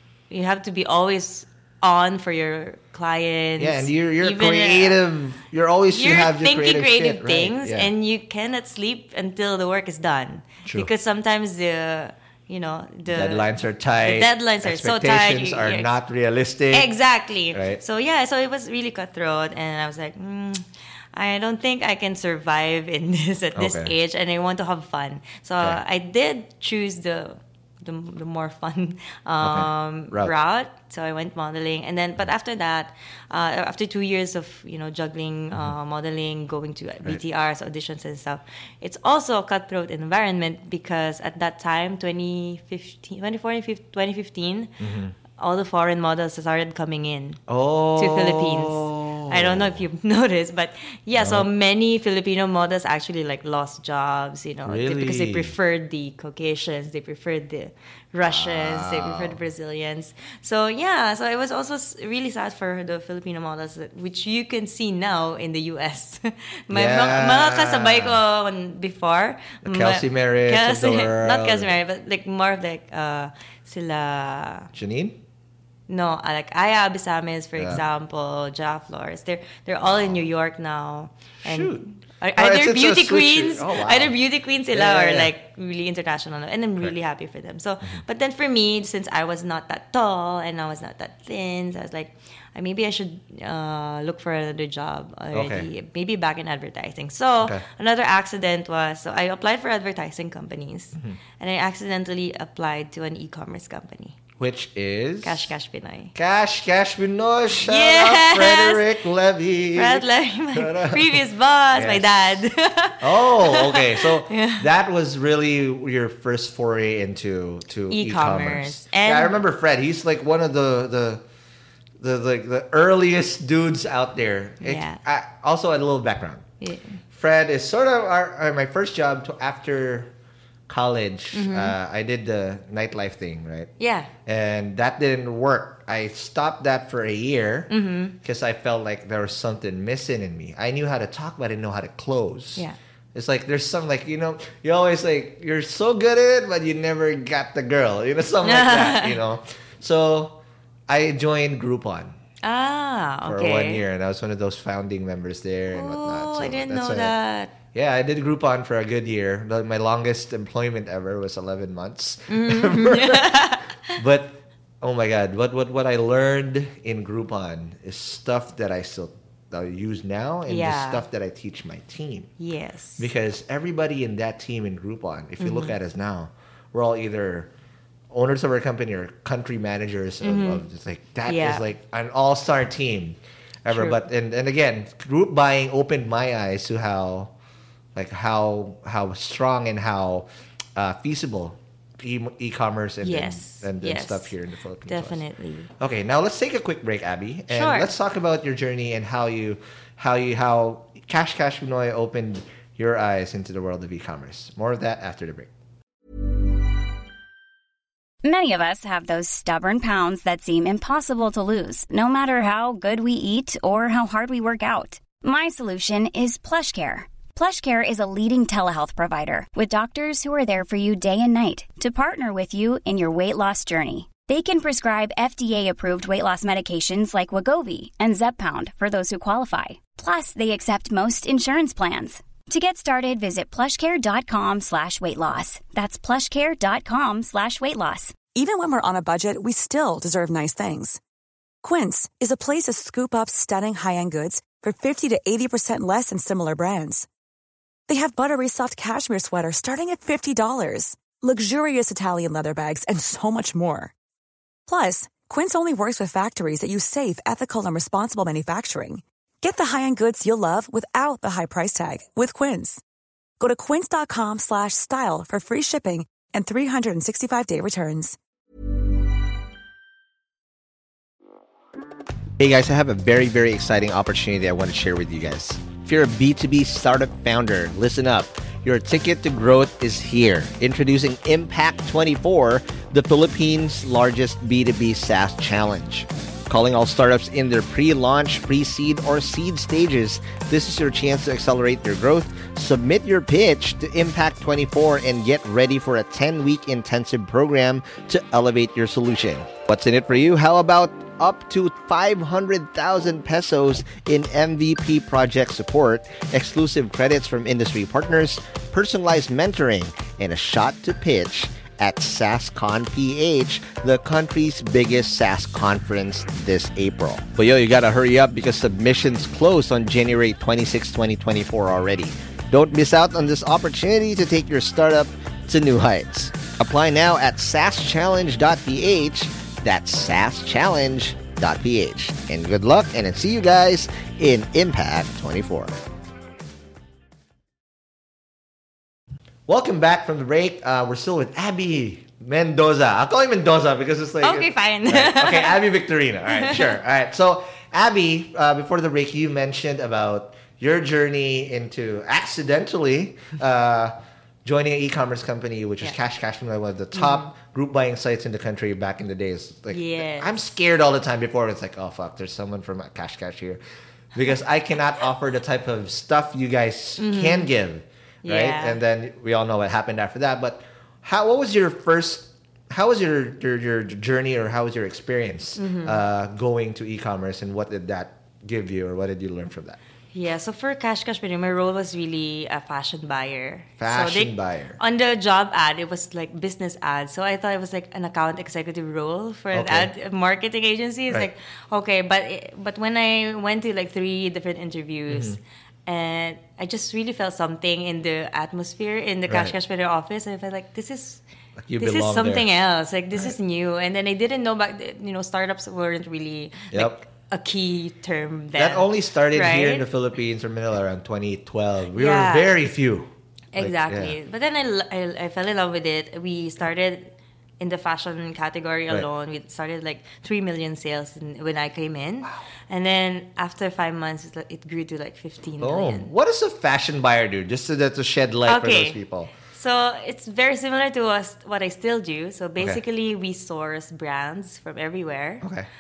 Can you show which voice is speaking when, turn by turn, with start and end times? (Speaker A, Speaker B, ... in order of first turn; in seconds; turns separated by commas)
Speaker A: 0.3-5.0, Speaker B: 3.6-7.9, Speaker A: 5.9-15.9, Speaker B: 13.1-16.9, Speaker A: 16.7-44.8, Speaker B: 17.5-17.8, Speaker B: 23.5-23.9, Speaker B: 29.4-30.3, Speaker B: 44.8-45.1, Speaker A: 45.3-47.4, Speaker B: 47.5-49.8, Speaker A: 48.0-74.7, Speaker B: 51.1-51.5, Speaker B: 54.6-55.5, Speaker B: 58.2-59.4, Speaker B: 66.7-68.2, Speaker B: 69.6-71.7, Speaker B: 74.7-75.2, Speaker A: 75.9-104.2, Speaker B: 77.6-77.8, Speaker B: 79.8-80.2, Speaker B: 81.4-84.1, Speaker B: 84.7-85.3, Speaker B: 95.3-95.7, Speaker B: 104.4-105.5, Speaker A: 105.2-106.1, Speaker B: 106.1-112.4, Speaker A: 107.6-108.8, Speaker A: 109.7-114.7, Speaker B: 113.0-121.2, Speaker A: 117.9-119.3, Speaker B: 122.0-126.4, Speaker A: 124.6-125.0, Speaker A: 126.6-127.0, Speaker B: 127.1-130.1, Speaker B: 130.7-133.7, Speaker A: 131.3-131.7, Speaker A: 133.8-134.1, Speaker B: 134.2-137.7, Speaker A: 137.7-138.1, Speaker B: 138.2-152.2, Speaker A: 148.4-149.2, Speaker A: 152.4-153.8, Speaker B: 153.2-157.1, Speaker A: 155.7-157.5, Speaker B: 157.7-172.3, Speaker A: 162.3-163.9, Speaker A: 170.5-171.0, Speaker A: 172.4-173.1, Speaker B: 173.0-177.5, Speaker A: 175.4-175.8, Speaker B: 178.1-187.3, Speaker A: 180.2-180.6, Speaker A: 181.2-181.6, Speaker A: 183.7-184.0, Speaker B: 187.9-195.2, Speaker A: 193.0-194.3, Speaker A: 194.9-195.7, Speaker B: 195.8-205.5, Speaker A: 197.5-197.9, Speaker C: 208.2-238.2, Speaker D: 238.2-241.0, Speaker D: 241.6-247.1, Speaker D: 247.9-253.9, Speaker D: 254.7-262.8, Speaker D: 263.4-268.1, Speaker B: 272.4-335.7, Speaker B: 339.5-363.6, Speaker A: 344.2-345.7, Speaker A: 346.3-346.7, Speaker A: 356.9-357.2, Speaker A: 359.7-360.4, Speaker B: 364.1-379.8, Speaker A: 367.0-367.5, Speaker A: 368.2-368.8, Speaker A: 375.6-376.0, Speaker A: 380.1-401.2, Speaker B: 383.8-384.8, Speaker B: 389.5-389.9, Speaker B: 395.1-395.4, Speaker B: 399.3-399.5, Speaker B: 401.6-402.5, Speaker A: 401.8-409.9, Speaker B: 408.6-414.1, Speaker A: 411.9-412.5, Speaker A: 413.5-426.1, Speaker B: 425.6-429.3, Speaker A: 428.4-435.4, Speaker B: 435.4-435.7